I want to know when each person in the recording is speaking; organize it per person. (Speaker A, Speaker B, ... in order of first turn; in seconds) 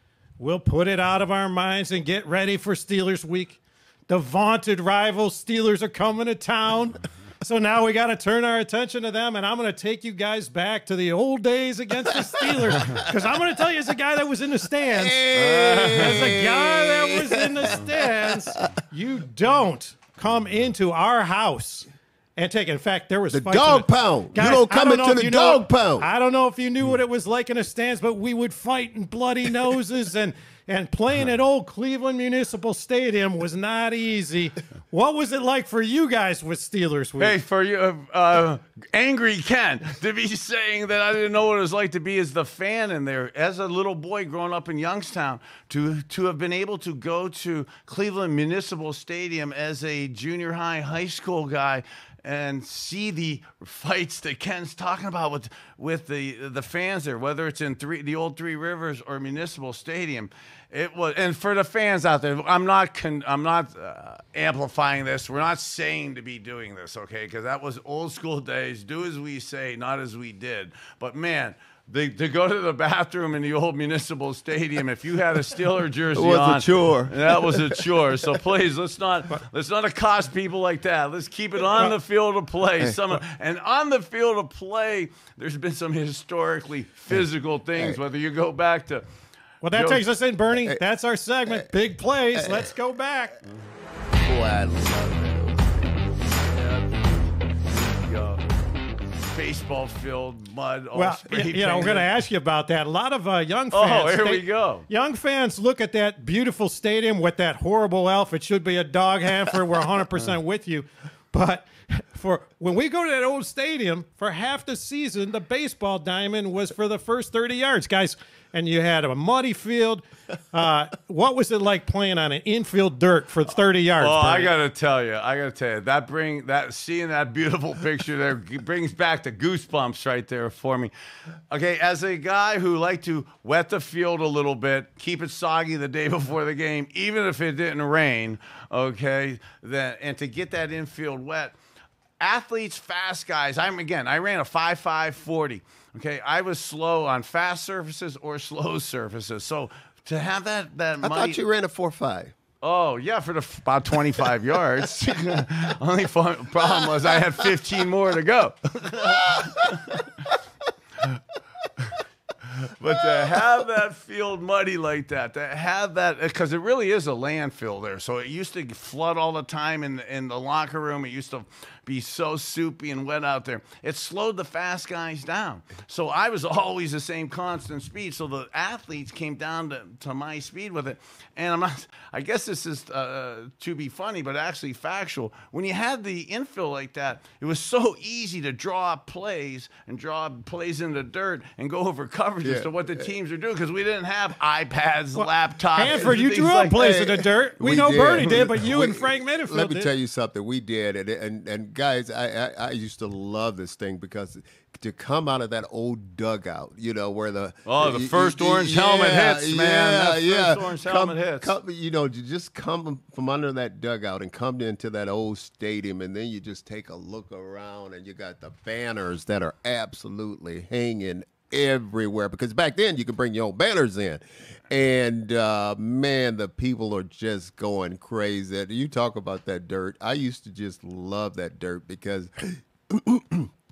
Speaker A: 0.4-15.2, 15.9-37.3, 89.6-93.4, 100.9-124.5, 195.2-199.9
Speaker B: 14.9-18.7, 23.3-26.1, 76.1-78.0, 92.3-92.7, 94.2-96.0, 151.0-152.3, 156.6-157.5, 159.0-160.2, 163.0-163.4, 192.4-193.1, 196.7-233.5
Speaker C: 15.3-16.2, 37.2-89.0, 89.7-90.0, 96.5-97.0, 97.7-98.4, 99.2-102.1, 103.7-104.8, 124.0-130.9, 131.5-141.5, 142.2-151.4, 152.6-160.0, 162.6-196.8, 207.7-211.5